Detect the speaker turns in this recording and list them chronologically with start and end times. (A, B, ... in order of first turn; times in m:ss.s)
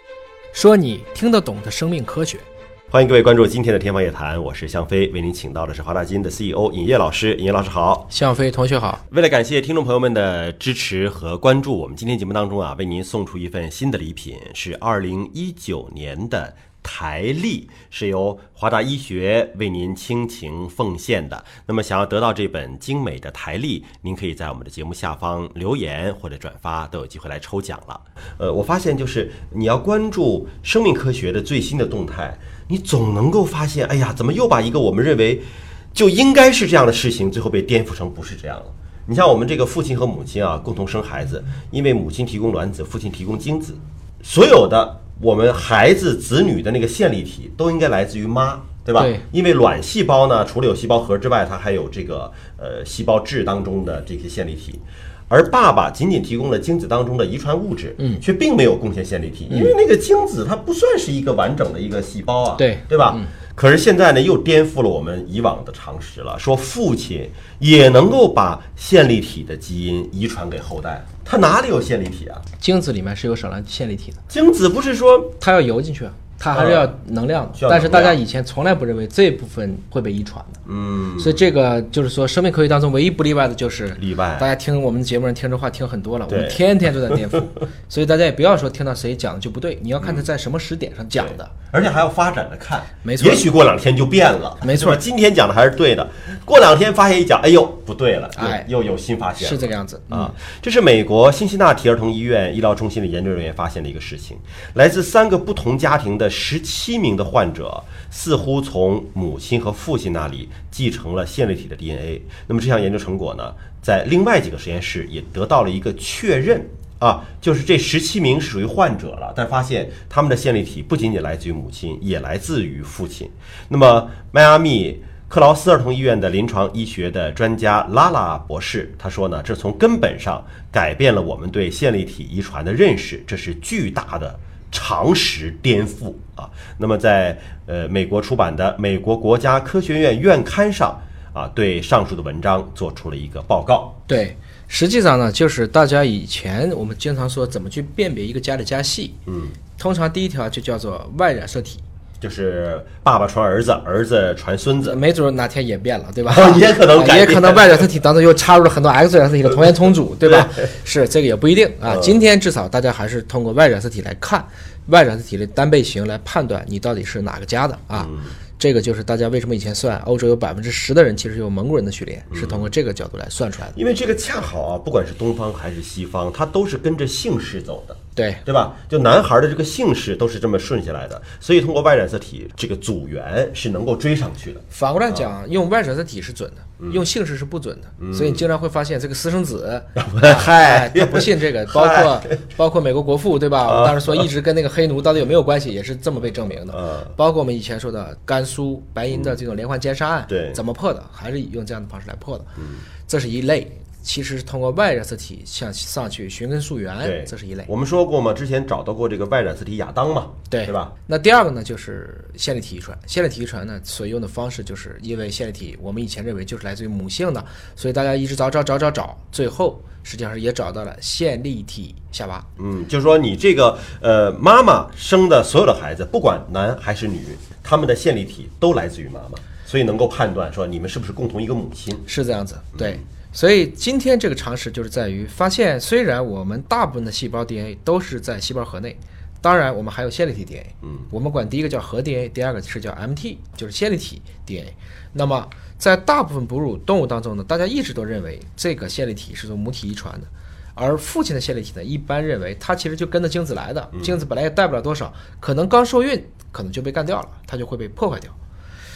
0:00.5-0:02.5 A
0:02.9-0:08.1 B
0:08.1-0:09.0 A
0:09.1-1:12.4 B
0:49.0-0:49.2 A
1:02.6-1:03.3 A
1:12.6-1:14.2 A
1:14.3-1:15.4 B
1:15.4-1:20.6 A
1:16.5-1:16.9 B
1:17.6-1:18.2 B
1:20.7-1:21.4 B
1:21.2-1:31.5 A
1:24.0-1:24.5 B
1:26.3-1:27.2 B
1:31.2-2:24.0 B
1:33.0-1:33.4 A
1:34.6-1:35.0 A
1:38.4-1:38.7 A
1:39.4-1:40.4 A
2:24.1-2:29.2 A
2:29.3-2:29.6 B
2:29.8-2:31.8 A
2:32.2-2:35.0 B
2:34.8-2:53.8 A
2:36.3-2:37.9 B
2:40.2-2:40.5 B
2:41.8-2:42.2 B
2:47.9-2:48.3 B
2:52.3-2:52.7 B
2:53.7-3:05.3 B
2:58.2-2:58.4 A
3:04.7-3:22.5 A
3:08.0-3:08.4 B
3:10.0-3:12.2 B
3:13.7-3:14.2 B
3:16.7-3:17.1 B
3:20.3-3:20.6 B
3:22.6-3:22.8 B
3:23.0-3:27.7 A
3:27.0-3:30.9 B
3:30.5-3:42.4 A
3:42.6-3:52.0 B
3:52.0-4:18.3 A
3:52.8-3:53.0 B
4:13.9-4:14.2 B